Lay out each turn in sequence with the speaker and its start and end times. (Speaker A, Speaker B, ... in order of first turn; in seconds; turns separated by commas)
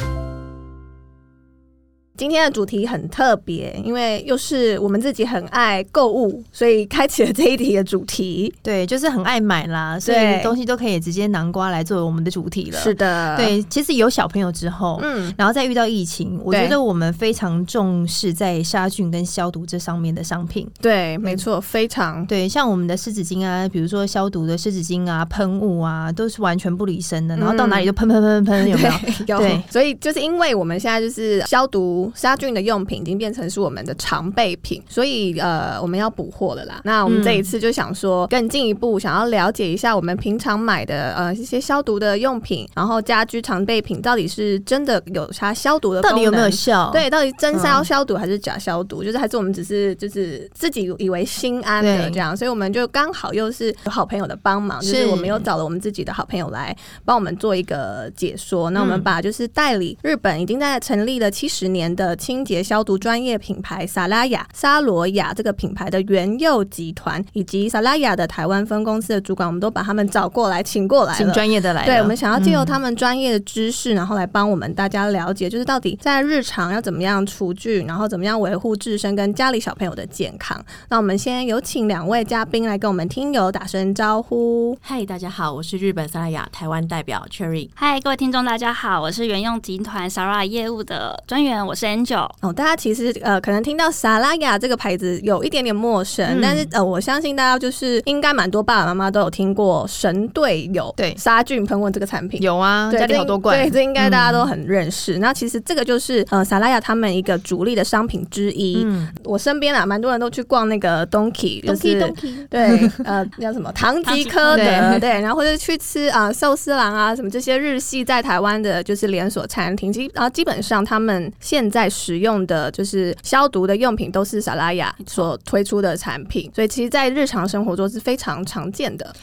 Speaker A: 2.2-8.6, Speaker B: 8.6-20.7, Speaker A: 10.0-10.6, Speaker A: 12.7-13.6, Speaker A: 15.0-15.4, Speaker A: 16.5-16.8, Speaker A: 20.8-22.3, Speaker B: 22.3-29.7, Speaker A: 27.4-27.9, Speaker A: 28.6-84.8, Speaker B: 37.0-37.5, Speaker B: 46.0-47.9, Speaker B: 51.8-52.2, Speaker B: 54.8-55.5, Speaker B: 58.8-59.1, Speaker B: 71.2-72.8, Speaker C: 84.8-87.7, Speaker D: 87.8-92.4, Speaker A: 92.4-129.2, Speaker B: 96.3-96.7, Speaker B: 102.4-104.5, Speaker B: 108.7-109.1, Speaker B: 111.7-113.0, Speaker D: 114.0-114.9, Speaker B: 114.5-114.9, Speaker D: 125.0-125.3